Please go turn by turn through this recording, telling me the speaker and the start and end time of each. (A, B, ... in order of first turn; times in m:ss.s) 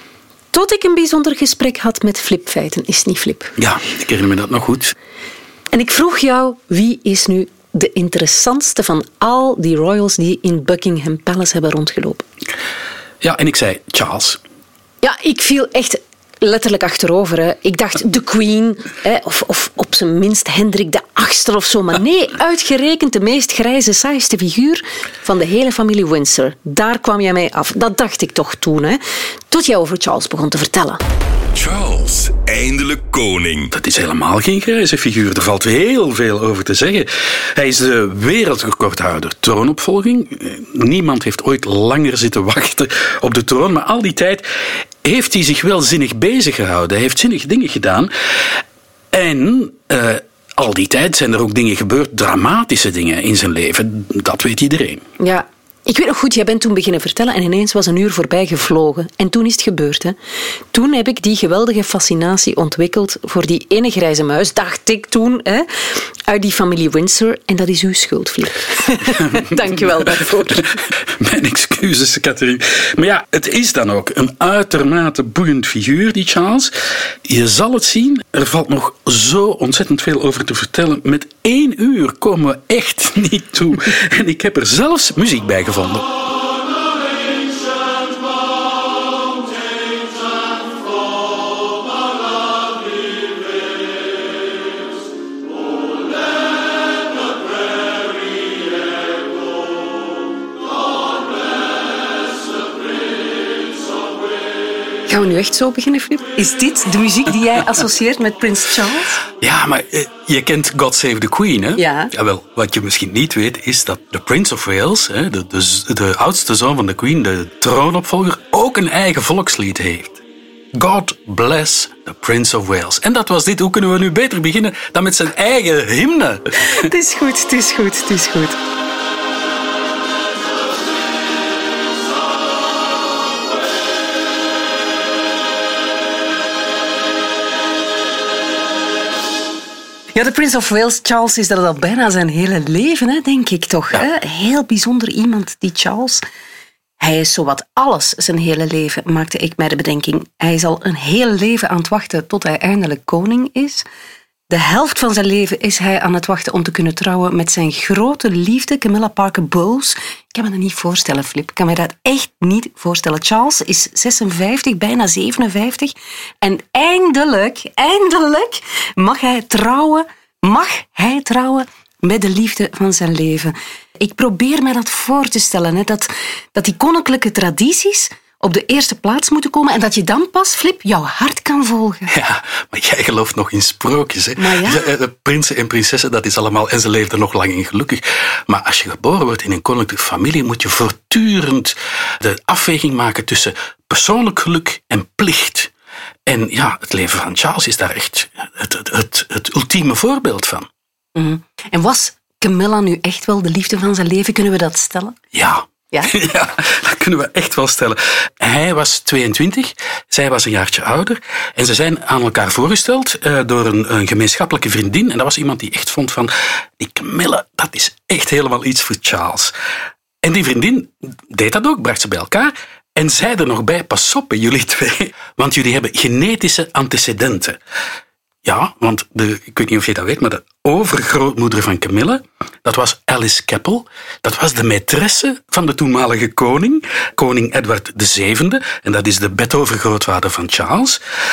0:00.5-0:03.5 A
0:03.6-0:05.0 B
0:05.7-0:12.2 A
0:13.2-0:14.4 B
0:15.0-0:31.0 A
0:31.5-0:33.7 C
0:33.7-0:55.1 B
0:55.2-1:00.2 A
1:00.7-1:10.8 A
1:10.5-1:26.1 B
1:45.1-1:49.2 A
1:49.4-2:00.2 B
1:51.8-1:52.1 A
2:00.7-2:06.8 B
2:06.6-2:08.6 A
2:20.1-2:26.2 A
2:27.0-2:33.8 A
2:34.5-3:02.1 A
3:02.1-3:15.7 B
3:04.4-3:04.9 A
3:16.3-3:20.7 B
3:21.2-3:25.2 A
3:25.3-3:39.5 B
3:40.2-3:47.6 B
3:48.4-4:01.0 B